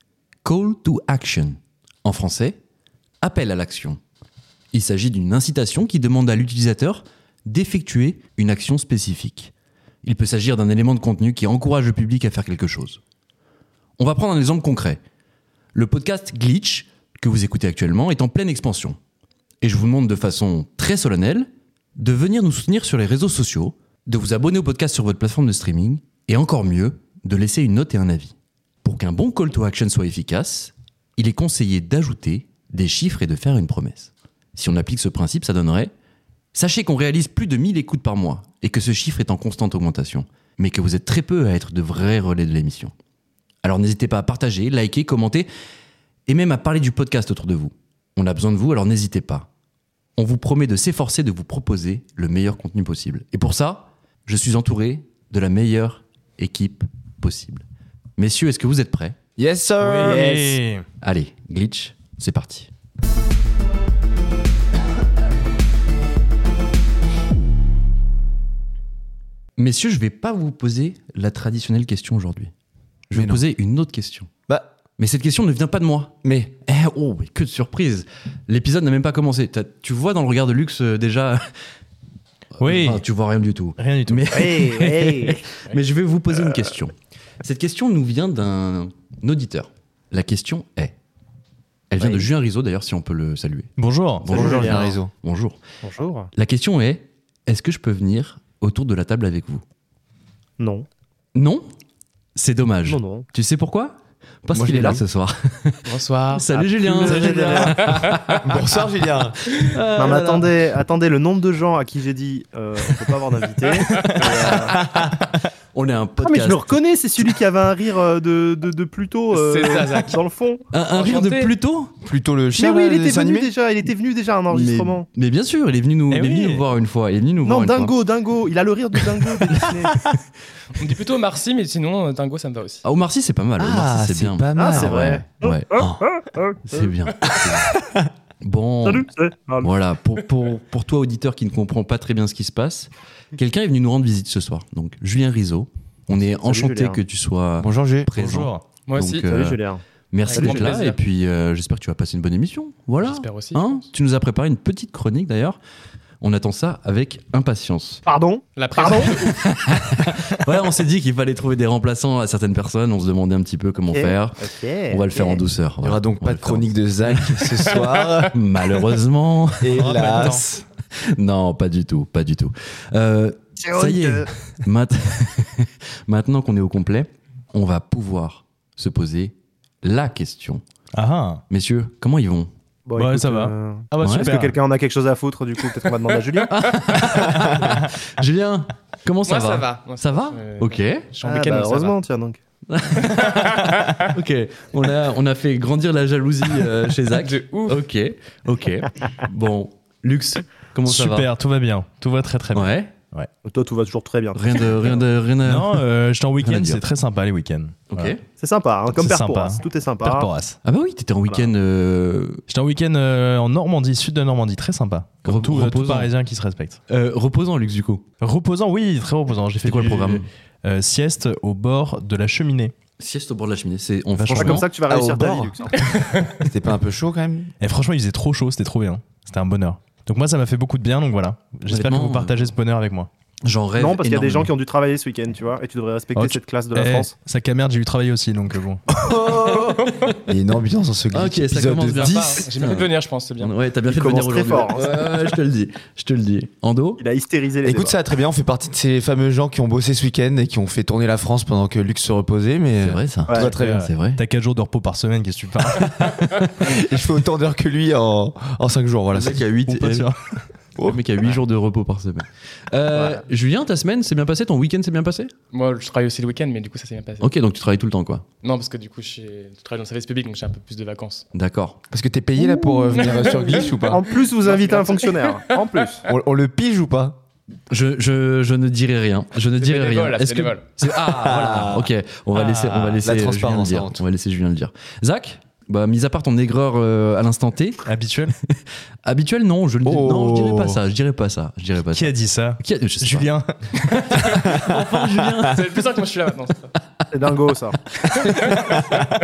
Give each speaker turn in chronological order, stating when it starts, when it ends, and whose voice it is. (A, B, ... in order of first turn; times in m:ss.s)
0:00.4-0:02.6 A
0:03.2-0:04.0 A
0:04.7-0:09.5 A
0:10.0-0:13.0 A
0:14.0-0:15.0 A
0:15.7-0:19.0 A
0:19.6-0:35.9 A
0:36.5-0:42.9 A
0:43.6-0:45.5 A
0:46.3-0:49.5 A
0:50.2-0:57.6 A
0:58.2-0:59.2 A
0:59.4-1:00.5 B
0:59.8-1:00.8 C
1:00.1-1:00.3 D
1:01.0-1:02.7 A
1:09.6-1:12.5 A
1:13.1-1:14.3 A
1:13.1-1:13.4 B
1:14.5-1:14.8 B
1:15.0-1:21.4 A
1:16.2-1:16.5 B
1:22.6-1:30.9 A
1:22.6-1:23.0 C
1:23.8-1:25.1 C
1:24.3-1:25.4 D
1:31.9-1:35.6 A
1:32.0-1:32.3 D
1:33.8-1:34.3 C
1:34.3-1:35.1 B
1:34.3-1:34.9 D
1:35.8-1:36.3 D
1:36.3-1:39.6 A
1:40.6-1:40.8 D
1:41.3-1:41.7 A
1:42.4-1:48.6 A
1:42.8-1:43.2 D
1:44.5-1:45.0 B
1:45.8-1:48.4 E
1:46.6-1:47.8 D
1:47.0-1:47.8 C
1:48.4-1:49.4 B
1:49.5-1:50.4 A
1:49.7-1:50.4 C
1:49.9-1:54.9 D
1:53.9-1:55.2 C
1:53.9-1:54.2 E
1:54.5-1:55.0 A
1:55.7-1:57.4 A
1:56.2-2:00.6 D
1:59.3-2:00.2 E
2:00.7-2:01.9 A
2:01.0-2:01.5 E
2:02.0-2:03.5 B
2:02.6-2:05.0 D
2:04.5-2:07.9 A
2:06.1-2:06.6 C
2:07.4-2:10.1 D
2:09.1-2:10.2 A
2:10.7-2:12.8 E
2:12.8-2:15.7 A
2:13.6-2:15.2 B
2:14.6-2:16.9 D
2:15.7-2:16.0 B
2:16.7-2:17.8 A
2:17.5-2:18.0 B
2:18.4-2:19.1 A
2:18.8-2:19.7 D
2:19.6-2:35.6 A
2:26.4-2:27.0 D
2:27.6-2:28.1 B
2:28.1-2:28.6 C
2:28.9-2:29.3 E
2:29.3-2:30.6 D
2:30.3-2:31.0 E
2:33.0-2:33.9 E
2:36.2-2:38.0 A
2:38.0-2:39.2 D
2:38.6-2:39.4 E
2:39.1-2:50.0 A
2:43.9-2:45.4 D
2:45.8-2:48.4 B
2:49.6-2:50.6 B
2:49.7-2:50.4 C
2:51.0-3:00.6 A
2:53.6-2:54.3 D
3:00.9-3:01.4 C
3:01.5-3:02.5 A
3:02.8-3:06.5 D
3:03.0-3:04.6 C
3:04.0-3:04.3 A
3:06.5-3:11.1 A
3:09.2-3:12.0 E
3:11.2-3:12.4 D
3:12.7-3:21.3 A
3:13.0-3:14.1 E
3:17.1-3:17.8 E
3:20.8-3:23.3 C
3:22.5-3:22.9 A
3:23.4-3:24.7 D
3:24.3-3:25.8 A
3:25.4-3:28.2 C
3:26.4-3:26.8 A
3:27.9-3:28.2 A
3:28.4-3:30.3 D
3:28.9-3:30.6 C
3:30.6-3:32.4 A
3:32.5-3:36.8 C
3:35.2-3:36.1 A
3:36.9-3:38.0 A
3:38.2-3:42.7 C
3:39.6-3:40.2 A
3:43.0-3:44.7 A
3:44.1-3:44.6 C
3:44.4-3:45.8 D
3:44.9-3:45.7 B
3:45.8-3:46.3 E
3:46.4-3:47.5 B
3:47.6-3:53.1 C
3:51.7-3:52.5 A
3:53.4-3:54.5 A
3:53.8-3:57.1 D
3:56.1-3:58.9 C
3:59.0-4:02.5 B
3:59.5-4:00.2 E
4:01.1-4:07.0 A
4:02.0-4:03.5 E
4:03.9-4:05.0 D
4:07.0-4:07.9 D
4:07.6-4:13.9 B
4:12.8-4:14.2 A
4:13.6-4:15.9 C
4:15.7-4:20.1 B
4:19.1-4:20.4 C
4:20.8-4:21.4 B
4:20.8-4:25.3 A
4:22.9-4:23.2 D
4:25.5-4:27.3 E
4:27.2-4:28.2 A
4:28.4-4:31.2 E
4:31.3-4:31.8 A
4:31.9-4:34.0 B
4:32.9-4:33.8 E
4:33.8-4:36.0 D
4:34.4-4:35.6 E
4:36.0-4:37.2 B
4:37.7-4:47.8 A
4:39.6-4:40.7 E
4:41.0-4:41.9 B
4:42.3-4:43.0 C
4:43.0-4:44.0 B
4:47.8-4:48.3 C
4:48.5-4:55.8 A
4:49.8-4:50.8 B
4:51.9-4:53.6 C
4:54.1-4:54.5 E
4:54.3-4:54.8 B
4:55.4-4:56.7 E
4:57.1-4:57.8 D
4:58.1-4:59.1 E
4:58.1-4:59.0 A
4:58.5-4:59.0 B